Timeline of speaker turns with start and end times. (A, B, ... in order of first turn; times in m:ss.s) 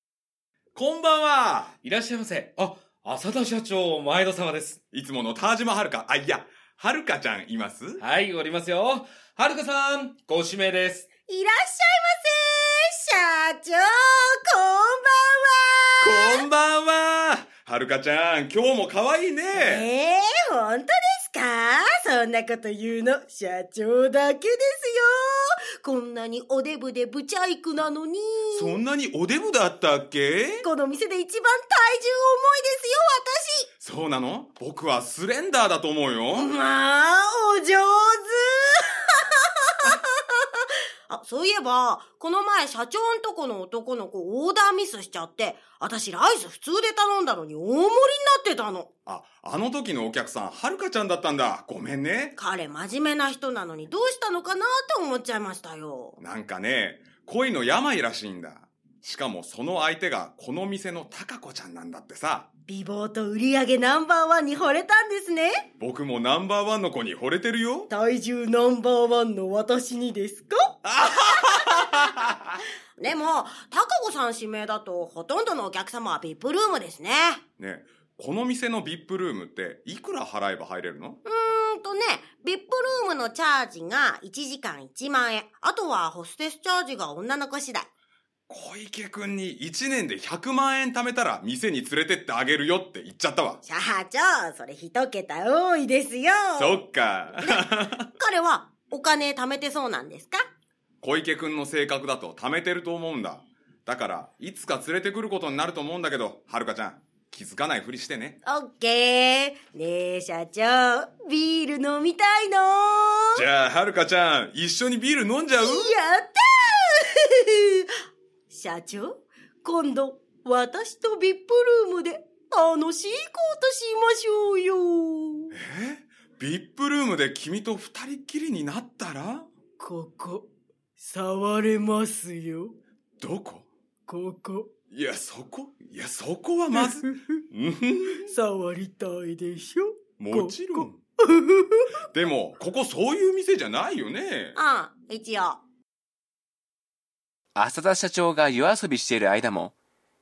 0:00.7-0:01.7 A
0:01.8-0:04.8 B
0:04.9-0:08.0 A
0:08.0-0:11.1 B
0:11.3-0:16.4 C
0:16.0-0:19.8 A
0:19.5-0:28.8 C
0:28.5-0:30.6 A
0:30.6-0:33.7 C
0:33.8-0:36.5 A
0:36.3-0:48.9 C
0:49.0-0:52.3 A
0:52.4-0:56.2 C
0:56.2-1:02.5 A
1:02.7-1:05.6 C
1:05.8-1:07.9 A
1:07.9-1:10.7 C
1:10.8-1:12.5 A
1:11.4-1:12.1 C
1:13.0-1:17.4 C
1:17.6-1:21.2 A
1:21.2-1:27.9 C
1:28.5-1:33.6 A
1:33.6-1:36.8 C
1:36.6-1:38.1 A
1:38.2-1:40.5 C
1:41.0-1:48.4 A
1:48.4-1:53.4 C
1:53.3-1:55.9 A
1:55.6-1:57.9 C
1:58.5-2:05.5 C
2:05.5-2:09.5 A
2:09.8-2:12.8 D
2:13.2-2:13.7 A
2:14.1-2:14.7 D
2:14.9-2:18.3 A
2:16.8-2:17.4 D
2:18.2-2:21.9 D
2:20.2-2:21.0 A
2:22.1-2:24.6 A
2:24.6-2:25.6 C
2:27.5-2:29.7 E